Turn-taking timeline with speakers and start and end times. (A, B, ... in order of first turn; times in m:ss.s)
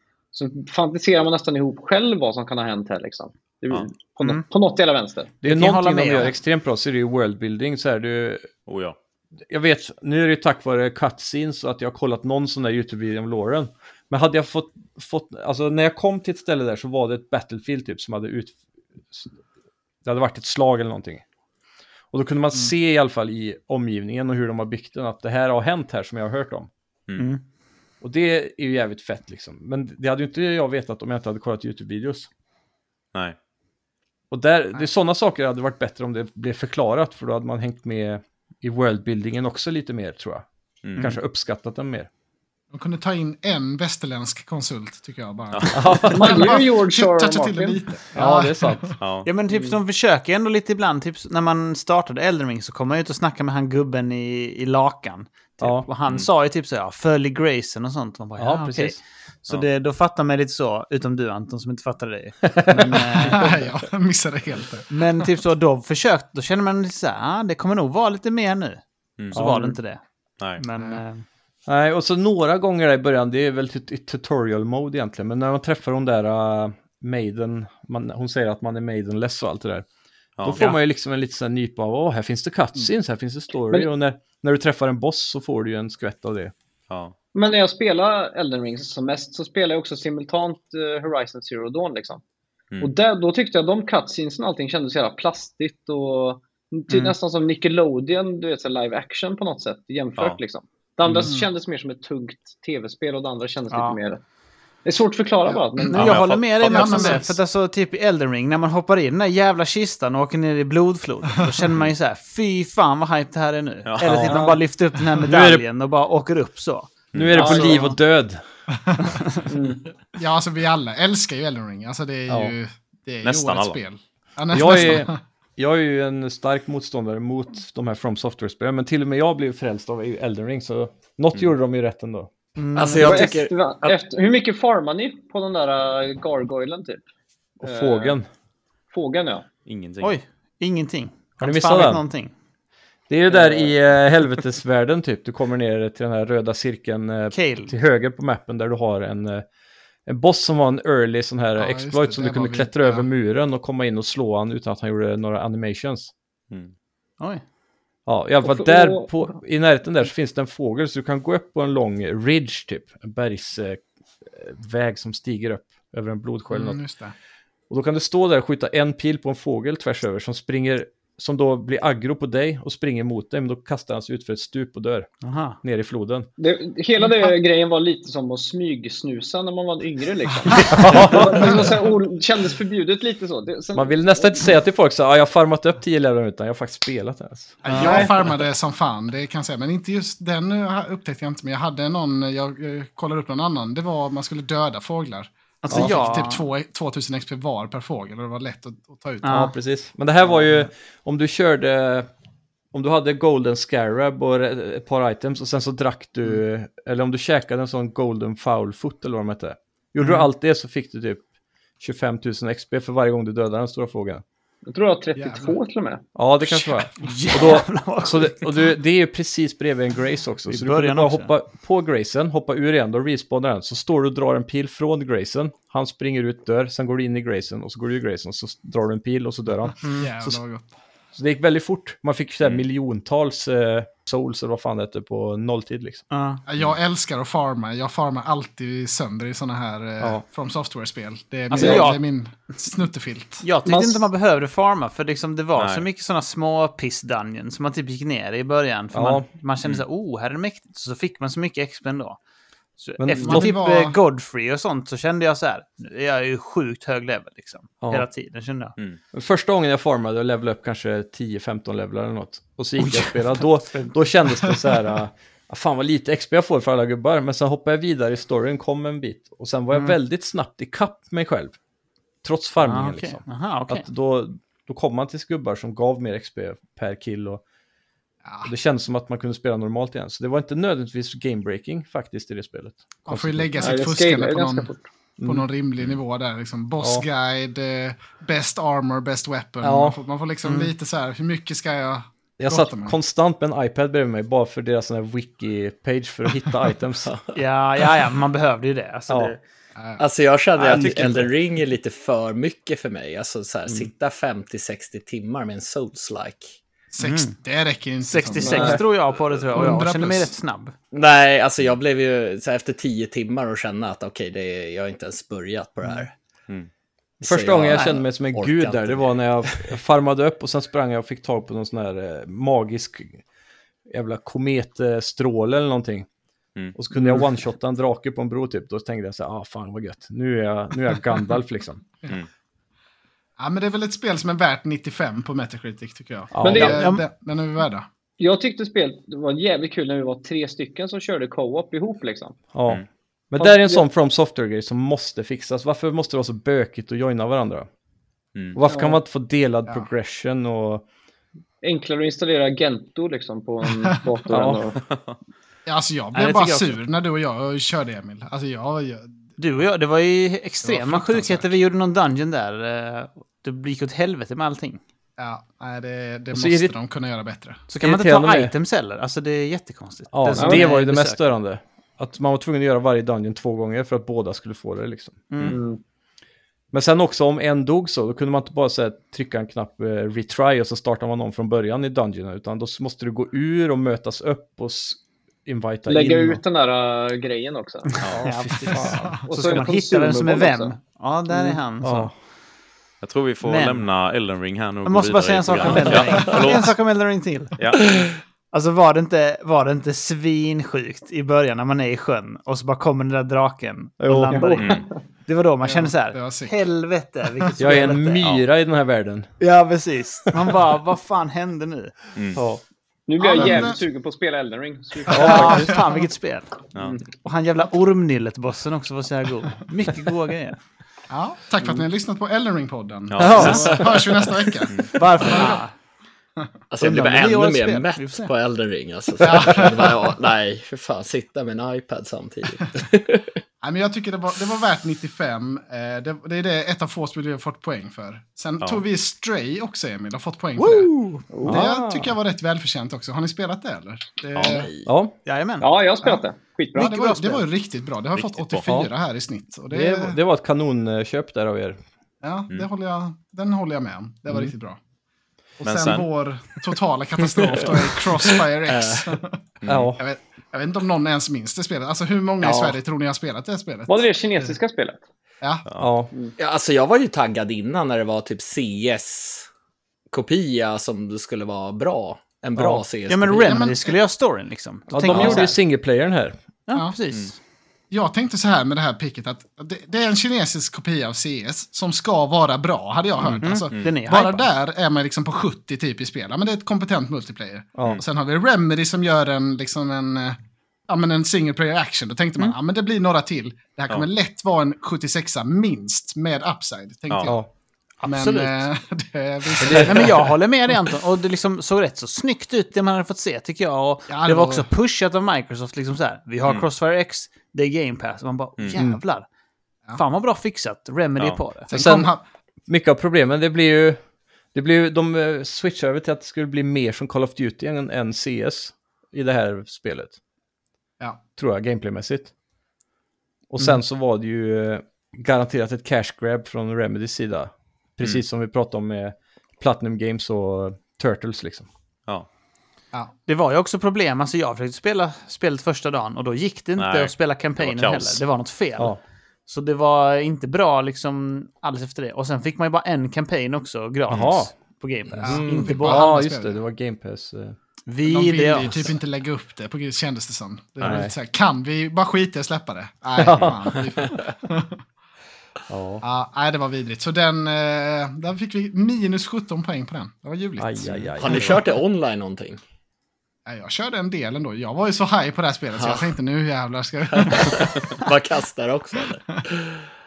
0:00.3-0:05.3 A
0:05.4-0:08.5 B
0:05.4-0:06.3 C
0:08.7-0:09.0 D
0:09.5-0:18.6 B
0:20.0-0:21.2 B
0:22.1-0:26.7 B
0:27.2-0:27.4 C
0:28.0-0:32.3 B
0:34.3-0:40.4 B
0:40.8-0:41.1 D
0:41.0-0:42.1 B
0:42.7-0:49.0 E
0:45.5-0:45.8 D
0:45.7-0:46.5 B
0:46.0-0:47.8 A
0:48.2-0:49.0 B
0:49.0-0:49.3 D
0:49.2-1:03.6 C
0:55.6-0:55.8 B
0:58.4-0:59.0 B
1:02.7-1:05.3 E
1:04.9-1:10.0 C
1:09.3-1:09.8 B
1:10.6-1:11.2 C
1:10.8-1:11.0 E
1:11.7-1:19.8 B
1:20.4-1:20.6 D
1:20.4-1:26.5 B
1:27.3-1:32.2 A
1:32.8-1:44.2 A
1:36.9-1:37.1 C
1:43.7-1:44.0 C
1:44.8-1:46.2 A
1:45.5-1:46.1 E
1:45.9-1:57.9 C
1:45.9-1:47.2 D
1:46.6-1:47.4 E
1:54.0-1:54.6 B
1:55.2-1:55.6 B
1:57.1-1:57.5 D
1:57.1-1:58.4 B
1:57.4-1:57.8 A
1:58.7-1:59.2 E
1:59.1-1:59.4 C
1:59.4-1:59.8 A
2:00.2-2:05.2 E
2:02.3-2:02.5 B
2:03.2-2:03.8 D
2:04.5-2:12.3 B
2:12.6-2:13.4 C
2:12.7-2:13.9 F
2:13.0-2:17.0 A
2:17.6-2:18.3 B
2:17.6-2:18.2 A
2:18.9-2:19.4 A
2:19.6-2:20.1 D
2:20.0-2:22.3 C
2:21.4-2:22.0 B
2:23.1-2:29.4 B
2:23.4-2:23.7 A
2:27.3-2:27.7 C
2:30.0-2:36.1 B
2:31.6-2:33.1 E
2:38.0-2:46.8 B
2:38.4-2:39.1 A
2:46.5-2:47.1 E
2:47.7-2:55.1 B
2:55.2-2:55.6 C
2:55.6-2:56.3 B
2:56.4-3:04.4 A
3:00.5-3:01.8 E
3:00.6-3:01.7 B
3:03.7-3:08.0 B
3:07.6-3:19.4 E
3:07.7-3:08.0 C
3:07.7-3:08.1 A
3:15.6-3:16.4 C
3:15.7-3:16.0 B
3:19.2-3:19.5 C
3:19.3-3:22.1 B
3:22.7-3:31.2 B
3:30.0-3:30.3 C
3:31.8-3:34.2 B
3:34.6-3:36.0 A
3:35.2-3:35.6 E
3:36.1-3:50.4 B
3:36.8-3:38.6 C
3:40.5-3:41.3 C
3:50.0-3:50.7 E
3:51.1-3:56.0 B
3:56.1-3:56.4 C
3:56.4-4:03.4 E
4:01.5-4:02.0 C
4:01.6-4:01.9 A
4:03.4-4:12.2 C
4:03.7-4:04.0 A
4:05.6-4:05.8 D
4:08.9-4:09.3 B
4:12.8-4:18.8 C
4:13.0-4:13.5 B
4:13.2-4:14.0 E
4:19.1-4:31.6 B
4:22.8-4:23.9 C
4:32.2-4:37.4 B
4:32.6-4:33.9 C
4:38.2-4:38.5 E
4:38.4-4:43.8 B
4:43.1-4:44.7 E
4:43.6-4:44.8 A
4:45.2-4:45.5 B
4:45.2-4:52.9 E
4:46.8-4:47.0 B
4:49.6-4:50.0 B
4:50.4-4:50.7 C
4:52.4-4:57.1 B
4:57.3-4:59.4 C
5:00.0-5:06.6 F
5:00.6-5:01.3 C
5:06.9-5:08.8 E
5:07.0-5:07.4 C
5:08.0-5:10.7 C
5:08.4-5:08.8 B
5:09.5-5:10.3 E
5:10.9-5:16.1 F
5:17.2-5:19.7 F
5:17.2-5:23.2 B
5:23.9-5:26.1 B
5:26.7-5:31.8 B
5:33.4-5:37.8 E
5:36.3-5:36.8 B
5:36.4-5:36.8 A
5:36.5-5:37.0 C
5:38.2-5:42.4 A
5:42.5-5:47.7 B
5:43.4-5:43.8 A
5:48.5-5:50.8 B
5:48.6-5:49.0 A
5:51.6-5:54.8 A
5:54.3-5:54.6 B
5:54.9-5:55.2 D
5:55.6-5:59.2 E
5:56.1-5:56.8 C
5:59.4-6:04.8 C
6:00.6-6:01.5 E
6:05.2-6:07.6 E
6:06.3-6:06.7 B
6:07.7-6:11.2 C
6:07.8-6:08.5 B
6:10.1-6:15.3 B
6:10.3-6:10.7 A
6:15.3-6:15.6 C
6:15.4-6:15.8 A
6:16.7-6:26.4 B
6:25.9-6:28.0 A
6:27.9-6:32.1 C
6:28.1-6:29.2 B
6:29.2-6:30.7 A
6:31.8-6:32.1 B
6:33.0-6:36.8 D
6:33.4-6:33.8 C
6:34.8-6:37.6 C
6:37.6-6:37.9 D
6:38.5-6:48.3 C
6:44.0-6:44.6 B
6:44.3-6:44.9 A
6:44.6-6:44.8 D
6:45.6-6:46.6 E
6:47.6-6:49.3 B
6:49.4-6:51.9 C
6:52.2-6:52.4 D
6:52.3-6:52.6 B
6:53.1-6:55.7 A
6:53.2-6:53.8 E
6:55.1-6:56.0 E
6:55.1-6:55.7 B
6:55.1-6:56.6 C
6:56.8-6:57.0 A
6:57.1-7:00.6 C
7:01.1-7:05.6 E
7:03.1-7:04.1 D
7:03.2-7:03.8 C
7:04.9-7:05.7 C
7:06.7-7:13.4 F
7:06.8-7:08.3 C
7:09.2-7:10.1 E
7:13.6-7:20.9 E
7:20.7-7:21.2 C
7:21.3-7:21.6 A
7:21.4-7:22.2 B
7:21.4-7:24.7 E
7:24.3-7:24.9 F
7:24.8-7:25.1 B
7:25.2-7:25.7 C
7:25.6-7:27.4 A
7:26.7-7:30.2 E
7:28.1-7:28.6 D
7:28.6-7:28.9 B
7:29.7-7:31.8 B
7:32.2-7:34.8 E
7:35.6-7:39.4 E
7:35.6-7:36.1 D
7:37.6-7:37.8 F
7:38.7-7:39.1 F
7:39.6-7:39.9 D
7:39.7-7:40.0 B
7:40.0-7:44.5 E
7:42.4-7:42.8 F
7:43.9-7:45.0 A
7:45.6-7:45.9 D
7:45.8-7:46.1 B
7:46.4-7:49.5 F
7:50.1-7:53.7 F
7:52.6-7:52.8 B
7:53.1-7:55.6 C
7:53.4-7:54.0 E
7:54.9-7:56.4 B
7:55.1-7:55.4 F
7:56.7-7:57.4 C
7:57.9-8:10.4 E
8:03.4-8:04.5 C
8:07.8-8:08.0 B
8:10.9-8:17.4 E
8:18.0-8:18.6 C
8:18.0-8:20.3 E
8:19.6-8:29.2 C
8:19.6-8:20.0 B
8:24.1-8:24.7 E
8:28.7-8:29.0 B
8:29.9-8:31.7 C
8:31.7-8:32.2 E
8:31.7-8:32.1 B
8:32.7-8:34.0 B
8:34.5-8:40.2 B
8:41.4-8:42.3 B
8:43.5-8:51.7 B
8:53.2-8:58.9 C
8:56.8-8:58.2 D
8:59.5-9:06.0 C
9:04.1-9:04.5 B
9:05.2-9:06.6 E
9:05.2-9:07.6 B
9:05.3-9:05.6 F
9:07.9-9:08.9 C
9:08.0-9:14.8 E
9:10.8-9:11.1 B
9:13.2-9:13.8 B
9:15.7-9:16.0 B
9:16.0-9:21.6 E
9:20.6-9:21.6 B
9:20.8-9:21.1 D
9:21.2-9:22.6 F
9:23.4-9:28.1 E
9:25.8-9:26.1 F
9:27.1-9:29.8 F